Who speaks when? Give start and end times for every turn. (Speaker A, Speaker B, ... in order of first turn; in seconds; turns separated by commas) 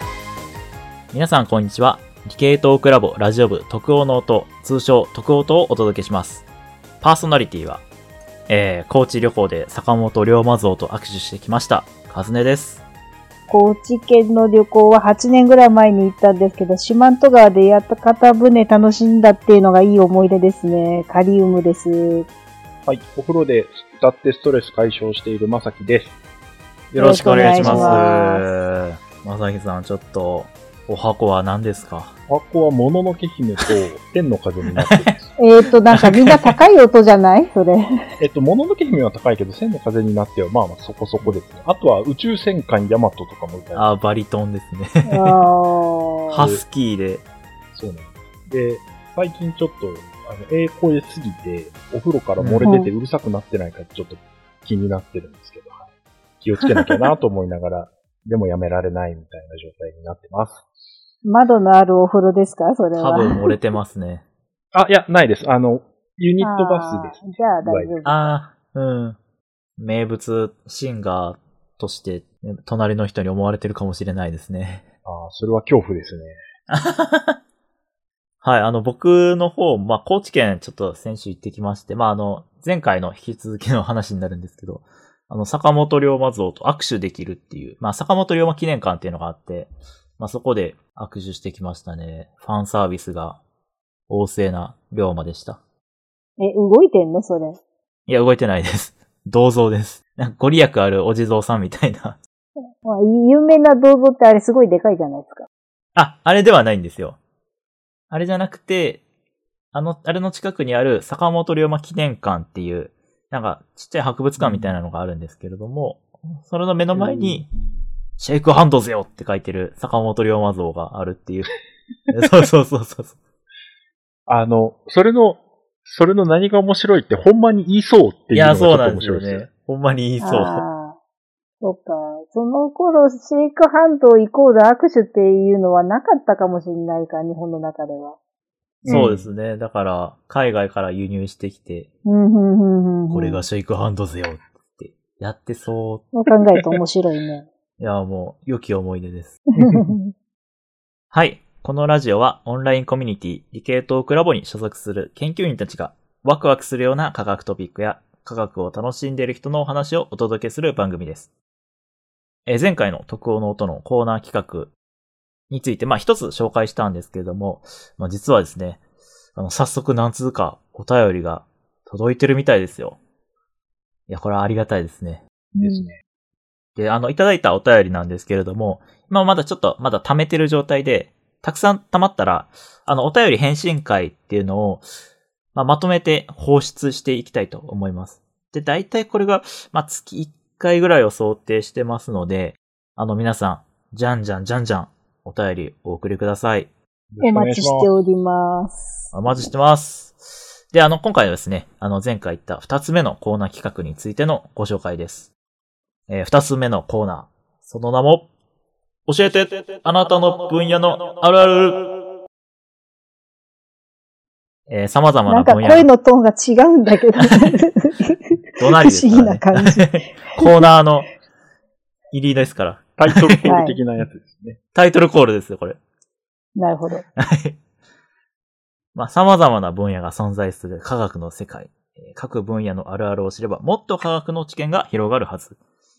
Speaker A: 1.1-6.5, Speaker A: 7.0-7.8, Speaker A: 8.5-12.8, Speaker B: 13.5-22.3, Speaker C: 22.9-26.1, Speaker A: 26.9-32.1, Speaker B: 27.0-28.6, Speaker C: 27.4-28.0, Speaker C: 32.3-35.3, Speaker A: 34.8-35.0, Speaker B: 35.4-37.9, Speaker A: 35.9-36.5, Speaker C: 38.2-43.9, Speaker A: 43.7-45.4, Speaker B: 45.0-46.4, Speaker A: 46.3-47.2, Speaker C: 46.4-46.6, Speaker C: 47.7-55.8, Speaker A: 52.4-52.7, Speaker B: 52.6-52.9, Speaker C: 56.4-60.6, Speaker B: 61.2-63.4, Speaker A: 63.0-64.2, Speaker C: 64.7-68.0, Speaker B: 66.4-68.3, Speaker A: 68.0-69.2, Speaker A: 69.8-74.8, Speaker C: 75.0-76.4, Speaker A: 76.7-77.4, Speaker A: 78.4-93.4, Speaker A: 94.1-95.6, Speaker B: 96.4-97.6, Speaker A: 98.1-102.2, Speaker B: 102.8-105.5, Speaker A: 105.9-107.2, Speaker A: 108.1-109.0, Speaker A: 109.7-117.5, Speaker C: 114.4-114.7, Speaker C: 116.9-117.4, Speaker A: 118.2-121.5, Speaker A: 122.1-123.2, Speaker C: 124.3-129.4, Speaker A: 128.3-130.6, Speaker B: 130.2-131.0, Speaker B: 131.6-138.2, Speaker C: 138.8-139.3, Speaker A: 138.8-141.9, Speaker B: 142.1-143.4, Speaker A: 143.1-146.1, Speaker B: 146.1-147.5, Speaker A: 147.8-149.4, Speaker B: 149.6-150.1, Speaker C: 149.6-149.9, Speaker A: 151.1-161.3, Speaker A: 162.4-164.7, Speaker A: 165.5-168.8, Speaker A: 169.3-173.0, Speaker A: 174.1-175.2, Speaker B: 175.5-175.9, Speaker C: 175.6-176.0, Speaker A: 176.8-184.9, Speaker A: 185.5-196.7, Speaker C: 197.1-197.9, Speaker B: 197.2-199.1, Speaker A: 199.1-205.3, Speaker A: 206.1-208.3, Speaker A: 209.1-212.0, Speaker A: 214.7-215.9, Speaker B: 215.3-220.6, Speaker A: 218.6-221.1, Speaker A: 222.1-223.4, Speaker C: 223.0-224.6, Speaker B: 223.4-223.8, Speaker A: 224.7-225.8, Speaker B: 226.6-227.0, Speaker A: 227.2-227.6, Speaker A: 228.9-235.6